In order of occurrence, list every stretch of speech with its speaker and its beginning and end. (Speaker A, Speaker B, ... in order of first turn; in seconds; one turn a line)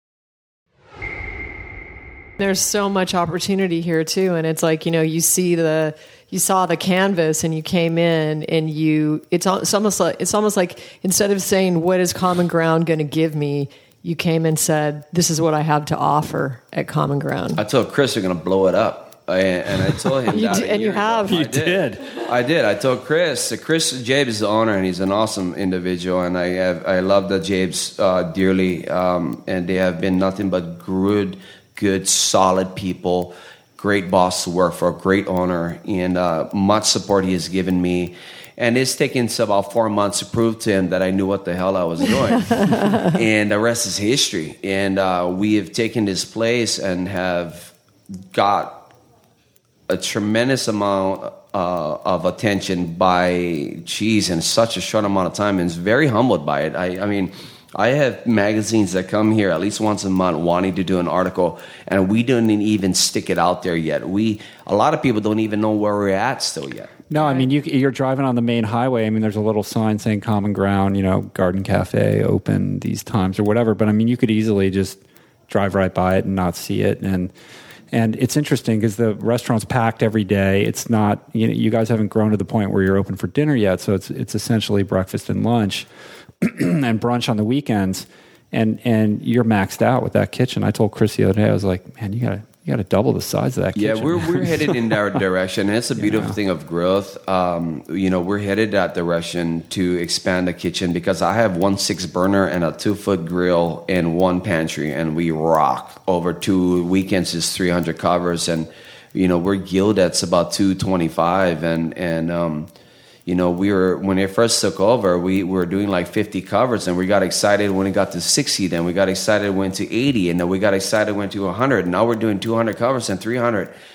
Speaker A: 2.4-17.6
Speaker B: 17.6-48.9
Speaker A: 20.3-21.4
Speaker C: 21.3-22.2
Speaker A: 42.7-42.9
Speaker B: 49.9-67.0
Speaker C: 67.1-77.3
Speaker C: 77.9-85.9
Speaker C: 86.4-94.8
Speaker B: 93.7-112.7
Speaker C: 96.0-96.4
Speaker B: 113.2-123.7